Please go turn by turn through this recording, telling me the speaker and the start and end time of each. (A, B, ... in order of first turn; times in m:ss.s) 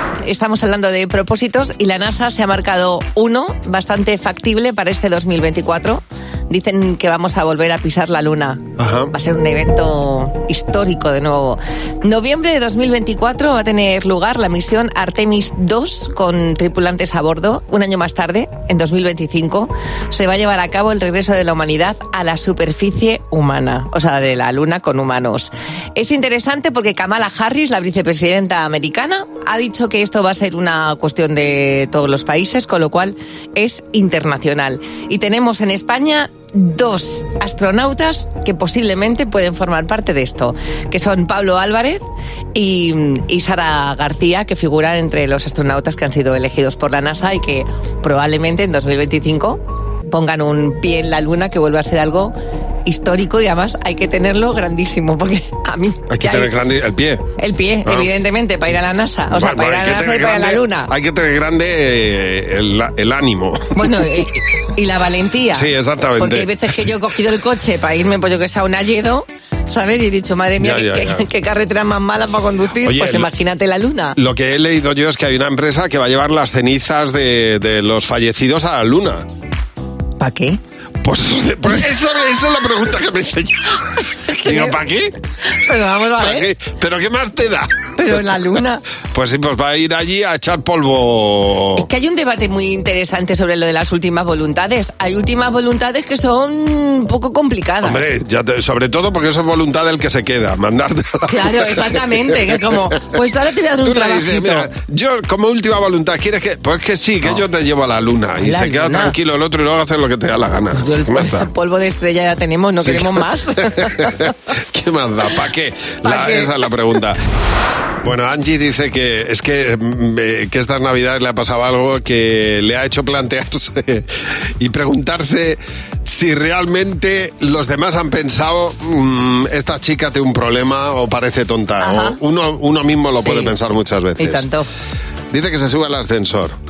0:00.2-0:42.0 A
0:08.8-0:09.1 B
0:42.6-0:52.3 A
0:52.8-0:56.5 A
0:56.1-0:57.2 B
0:57.4-1:00.9 A
0:59.3-1:03.9 B
1:03.8-1:14.2 A
1:05.5-1:06.8 B
1:10.6-1:11.3 B
1:12.8-1:13.3 B
1:14.2-1:19.2 B
1:20.2-1:20.6 A
1:21.0-1:25.2 B
1:24.2-1:24.8 A
1:25.5-1:26.5 A
1:26.2-1:27.7 B
1:28.0-1:28.8 A
1:29.1-1:31.9 B
1:31.8-1:38.0 A
1:37.8-1:42.4 B
1:41.3-1:44.7 A
1:43.8-1:51.5 B
1:48.4-1:49.1 A
1:50.8-1:54.0 A
1:52.8-1:57.2 B
1:56.0-1:56.5 A
1:58.0-2:14.5 B
2:11.8-2:12.2 A
2:13.2-2:13.5 A
2:14.2-2:14.7 A
2:15.3-2:16.6 B